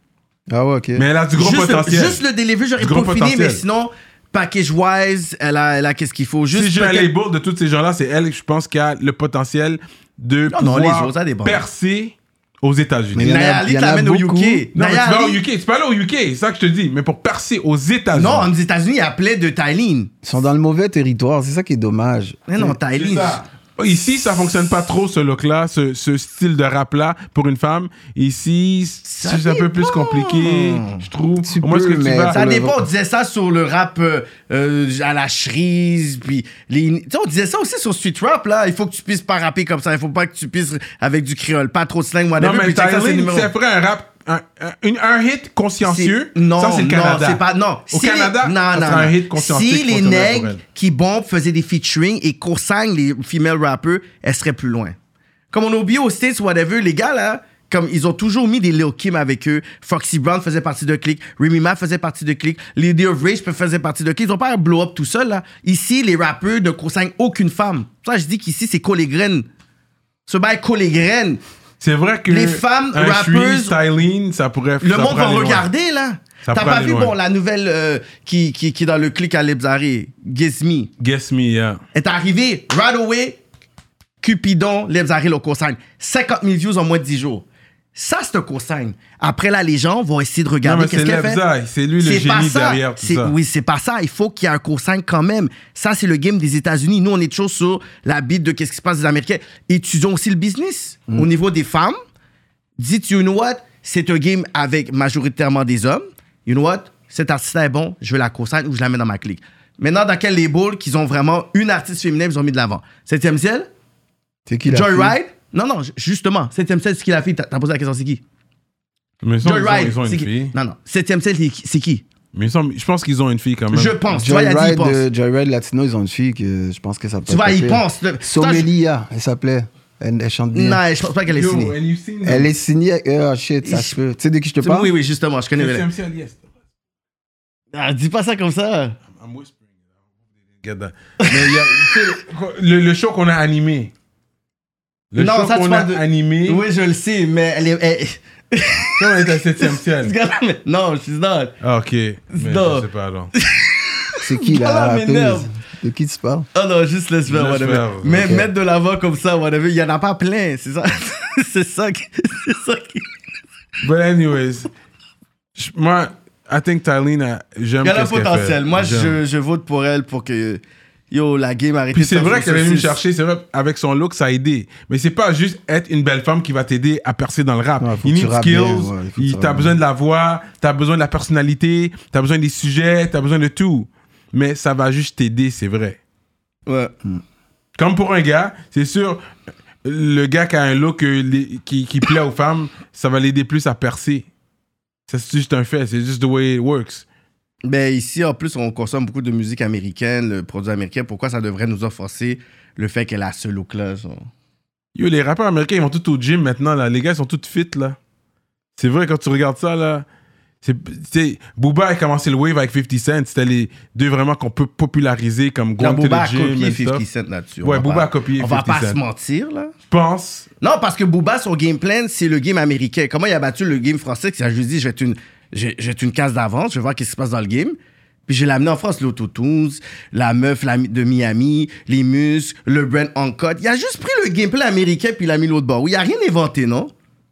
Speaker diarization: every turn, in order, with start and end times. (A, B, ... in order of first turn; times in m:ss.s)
0:00.5-0:01.0 A
0:01.0-0:02.2 B
0:01.3-0:07.1 C
0:02.8-0:03.6 B
0:06.5-0:13.3 B
0:10.5-0:11.6 C
0:13.1-0:14.7 A
0:13.2-0:15.4 C
0:14.7-0:18.5 B
0:18.1-0:20.1 C
0:20.2-0:22.8 A
0:22.5-0:23.4 C
0:22.9-0:32.4 B
0:29.0-0:31.0 C
0:31.4-0:32.8 A
0:32.3-0:43.5 C
0:42.4-0:50.6 B
0:45.8-0:55.0 C
0:55.5-1:09.4 C
1:10.2-1:11.4 C
1:11.8-1:15.7 B
1:12.3-1:13.8 C
1:14.8-1:20.9 C
1:16.4-1:17.1 B
1:21.0-1:21.8 B
1:21.9-1:23.4 C
1:24.2-1:31.4 C
1:30.6-1:33.3 B
1:32.0-1:42.0 C
1:42.8-1:53.7 C
1:54.5-1:55.2 A
1:54.7-1:58.2 C
1:59.2-2:00.5 B
1:59.4-2:02.0 C
2:02.3-2:04.0 B
2:03.7-2:05.0 C
2:04.1-2:10.8 A
2:07.2-2:08.7 C
2:10.5-2:11.7 C
2:11.3-2:12.5 B
2:12.2-2:14.9 A
2:13.6-2:14.0 C
2:14.6-2:15.9 C
2:15.6-2:16.4 B
2:17.7-2:19.0 C
2:19.1-2:19.6 B
2:20.6-2:23.9 B
2:21.2-2:22.2 C
2:25.1-2:26.6 B
2:25.2-2:31.5 C
2:28.9-2:30.1 B
2:31.6-2:33.3 B
2:32.3-2:35.5 C
2:34.2-2:36.5 A
2:36.5-2:43.1 C
2:37.3-2:38.4 B
2:38.2-2:38.5 A
2:43.8-2:44.7 B
2:45.6-2:49.2 B
2:47.8-2:50.6 C
2:51.1-2:53.0 C
2:51.9-3:06.0 B
2:57.8-2:59.7 A
3:06.7-3:06.9 C
3:07.8-3:09.2 B
3:09.8-3:14.2 B
3:15.1-3:17.0 B
3:17.6-3:24.3 C
3:24.9-3:28.0 B
3:28.8-3:30.0 B
3:30.6-3:37.0 B
3:35.8-3:39.7 C
3:37.6-3:39.0 B
3:39.9-3:40.5 B
3:40.6-3:47.8 C
3:48.3-3:56.9 C